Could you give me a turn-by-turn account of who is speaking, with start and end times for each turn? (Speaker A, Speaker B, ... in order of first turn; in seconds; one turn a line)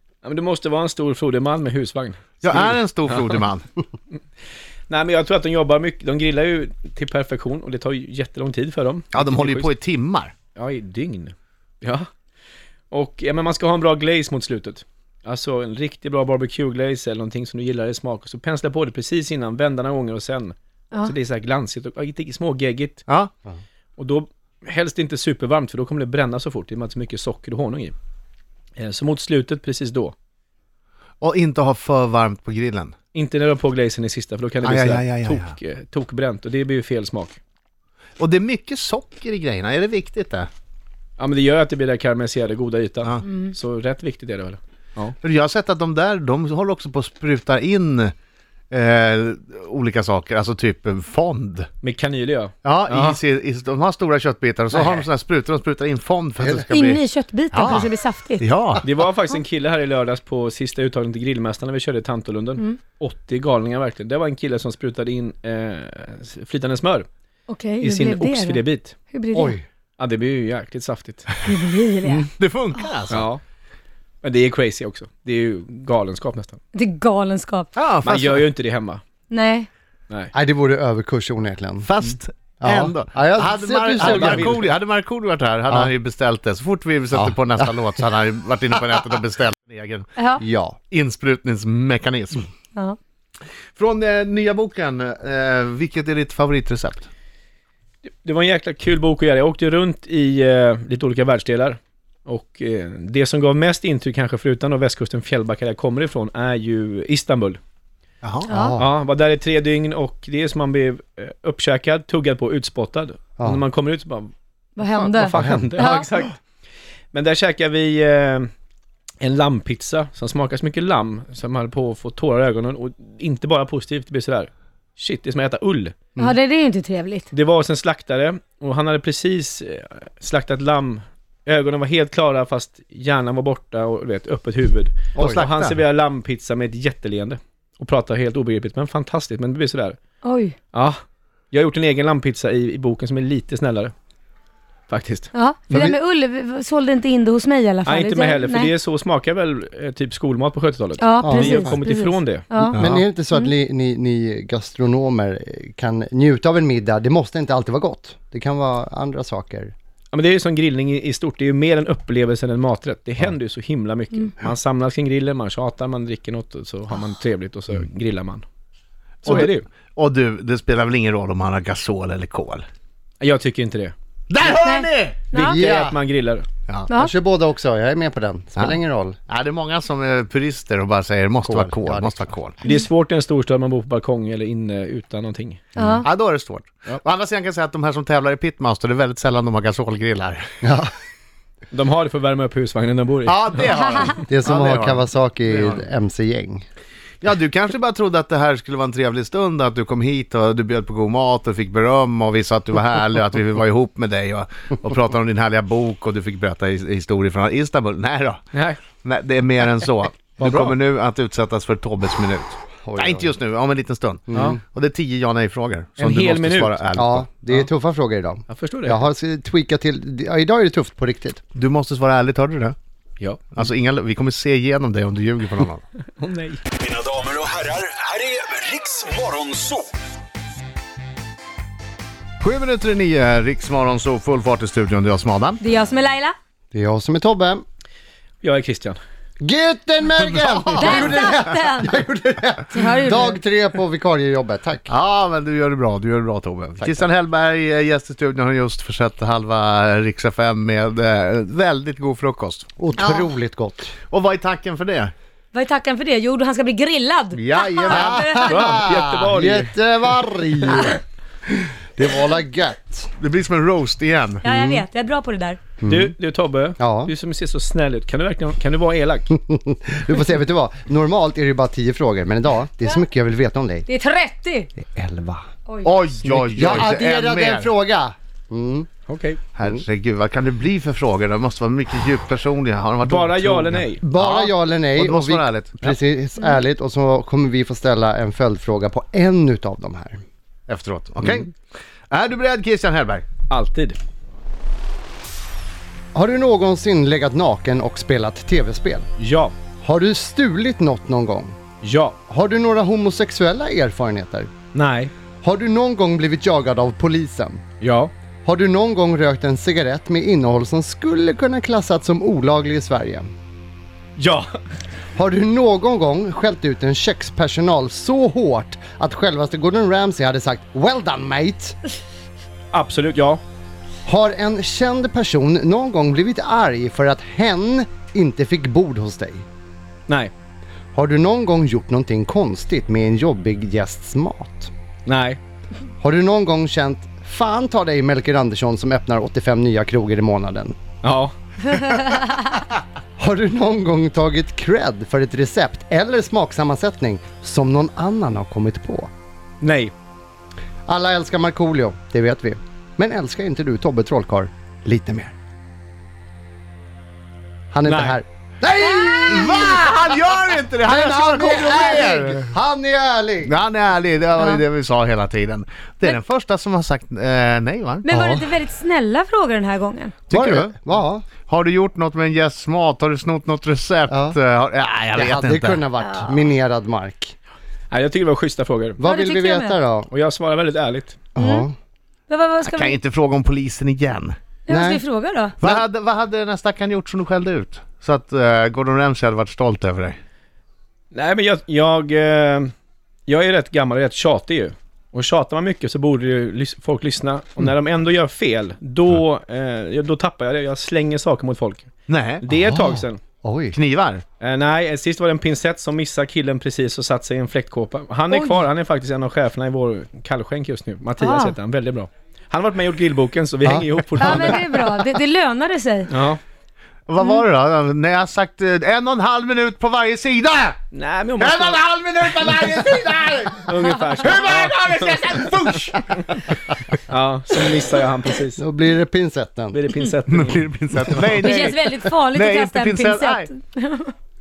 Speaker A: 0.2-3.4
Speaker B: 2.4-3.6
Speaker A: 4.9-9.7
Speaker B: 9.1-10.3
Speaker A: 10.5-12.1
Speaker A: 12.9-23.0
Speaker A: 24.0-27.9
Speaker A: 28.8-30.1
Speaker B: 31.2-32.9
Speaker A: 33.1-37.4
Speaker B: 34.6-35.5
Speaker B: 38.2-40.5
Speaker A: 41.2-45.1
Speaker C: 43.3-43.5
Speaker B: 45.2-48.1
Speaker B: 48.7-51.7
Speaker A: 51.8-53.2
Speaker B: 52.6-58.8
Speaker D: 54.7-55.0
Speaker D: 56.4-56.7
Speaker C: 56.7-58.5
Speaker A: 58.8-67.1
Speaker C: 67.5-69.6
Speaker A: 67.8-68.9
Speaker D: 69.3-69.6
Speaker A: 70.0-71.3
Speaker C: 71.4-72.3
Speaker B: 72.0-73.2
Speaker A: 73.1-73.4
Speaker A: 74.2-76.6
Speaker C: 76.7-77.7
Speaker B: 77.8-78.5
Speaker A: 78.0-79.0
Speaker C: 79.3-79.7
Speaker D: 80.3-81.9
Speaker B: 81.8-90.1
Speaker D: 82.6-84.7
Speaker D: 87.3-87.6
Speaker C: 90.2-90.4
Speaker D: 90.4-90.8
Speaker B: 90.9-92.5
Speaker B: 93.8-97.0
Speaker A: 98.1-107.6
Speaker B: 108.2-108.5
Speaker C: 108.5-108.8
Speaker D: 108.5-108.9
Speaker A: 108.8-114.3
Speaker D: 113.4-113.6
Speaker C: 114.8-116.1
Speaker A: 114.9-116.3
Speaker D: 115.3-115.7
Speaker A: 117.1-118.5
Speaker A: 119.2-125.9
Speaker C: 126.2-127.3
Speaker A: 127.3-140.0
Speaker B: 135.1-135.7
Speaker C: 140.2-140.6
Speaker A: 140.7-141.0
Speaker A: 141.5-143.9
Speaker A: 144.9-145.3
Speaker C: 145.3-148.7
Speaker D: 145.7-146.0
Speaker A: 147.8-152.5
Speaker C: 151.0-152.8
Speaker D: 151.2-151.8
Speaker B: 152.7-153.0
Speaker D: 152.7-159.7
Speaker A: 160.1-168.4
Speaker A: 169.2-169.7
Speaker B: 169.2-172.6
Speaker A: 173.2-173.9
Speaker B: 174.3-175.2
Speaker C: 174.4-175.6
Speaker A: 175.3-176.4
Speaker D: 175.4-176.0
Speaker C: 176.9-177.1
Speaker D: 176.9-179.2
Speaker B: 178.6-182.6
Speaker D: 181.4-182.4
Speaker A: 182.6-185.6
Speaker C: 185.8-186.1
Speaker D: 185.8-186.0
Speaker B: 186.0-190.4
Speaker D: 190.6-190.9
Speaker A: 191.7-193.7
Speaker B: 193.2-195.0
Speaker D: 194.2-196.6
Speaker B: 197.2-208.4
Speaker A: 208.5-208.8
Speaker B: 209.0-217.2
Speaker A: 210.4-210.8
Speaker D: 212.8-213.4
Speaker D: 214.3-214.6
Speaker A: 214.3-214.6
Speaker A: 216.0-216.8
Speaker D: 216.9-221.4
Speaker A: 218.5-219.0
Speaker B: 221.5-222.7
Speaker B: 223.5-225.8
Speaker A: 226.2-226.6
Speaker E: 226.8-229.8
Speaker B: 232.4-235.6
Speaker C: 235.6-236.3
Speaker D: 236.7-237.6
Speaker A: 238.4-239.0
Speaker D: 239.4-244.9
Speaker B: 240.3-241.4
Speaker C: 240.8-242.0
Speaker C: 242.7-243.4
Speaker B: 244.9-252.7
Speaker D: 246.8-247.1
Speaker D: 252.8-253.9
Speaker C: 253.0-253.3
Speaker B: 254.1-255.1
Speaker C: 255.5-258.7
Speaker B: 257.3-258.8
Speaker D: 257.9-263.1
Speaker A: 258.4-259.7
Speaker B: 263.2-264.4
Speaker C: 264.4-265.6
Speaker D: 264.4-264.8
Speaker D: 265.8-266.1
Speaker A: 265.9-269.3
Speaker D: 266.8-267.1
Speaker D: 269.3-273.9
Speaker C: 273.9-274.7
Speaker D: 274.8-275.4
Speaker C: 275.7-276.0
Speaker B: 275.8-277.7
Speaker A: 276.2-276.9
Speaker D: 276.6-278.9
Speaker A: 279.1-279.4
Speaker B: 279.6-286.0
Speaker A: 283.0-284.0
Speaker D: 284.0-290.2
Speaker B: 290.7-291.6
Speaker B: 292.1-293.2
Speaker A: 293.5-294.0
Speaker D: 296.1-299.1
Speaker A: 299.2-299.5
Speaker D: 299.8-301.6
Speaker A: 301.8-302.2
Speaker D: 302.3-304.5
Speaker A: 304.7-305.1
Speaker D: 305.4-307.6
Speaker A: 307.8-308.1
Speaker D: 308.4-313.3
Speaker A: 314.2-314.5
Speaker D: 315.1-321.8
Speaker A: 322.7-323.4
Speaker D: 324.1-329.4
Speaker D: 330.9-334.7
Speaker A: 335.1-335.4
Speaker D: 336.0-340.8
Speaker A: 341.0-341.3
Speaker D: 343.2-349.1
Speaker A: 349.6-349.9
Speaker D: 350.9-355.3
Speaker D: 357.7-360.2
Speaker A: 357.8-358.2
Speaker B: 359.2-362.5
Speaker D: 360.8-363.6
Speaker B: 363.4-368.0
Speaker C: 368.0-370.1
Speaker D: 368.1-368.5
Speaker D: 370.3-371.2
Speaker B: 370.3-375.8
Speaker D: 374.1-374.4
Speaker D: 375.1-377.3
Speaker C: 376.1-376.4
Speaker A: 377.9-379.0
Speaker D: 379.0-380.1
Speaker C: 379.0-379.8
Speaker A: 380.1-381.2
Speaker D: 381.4-381.7
Speaker C: 381.4-381.7
Speaker C: 382.3-383.0
Speaker B: 382.6-384.3
Speaker C: 384.7-385.6
Speaker D: 384.7-385.1
Speaker B: 385.6-390.2
Speaker A: 391.1-392.7
Speaker A: 393.3-401.9
Speaker B: 402.1-402.4
Speaker A: 402.4-403.2
Speaker D: 402.5-403.8
Speaker B: 403.7-404.2
Speaker A: 404.4-414.6
Speaker C: 408.3-408.6
Speaker C: 411.2-411.6
Speaker D: 413.6-414.6
Speaker C: 414.2-416.1
Speaker A: 416.1-416.4
Speaker B: 417.1-420.8
Speaker A: 420.9-421.8
Speaker B: 421.4-426.9
Speaker A: 423.7-425.6
Speaker A: 427.1-428.6
Speaker D: 428.6-429.8
Speaker A: 429.7-431.3
Speaker B: 430.3-433.5
Speaker C: 431.4-434.1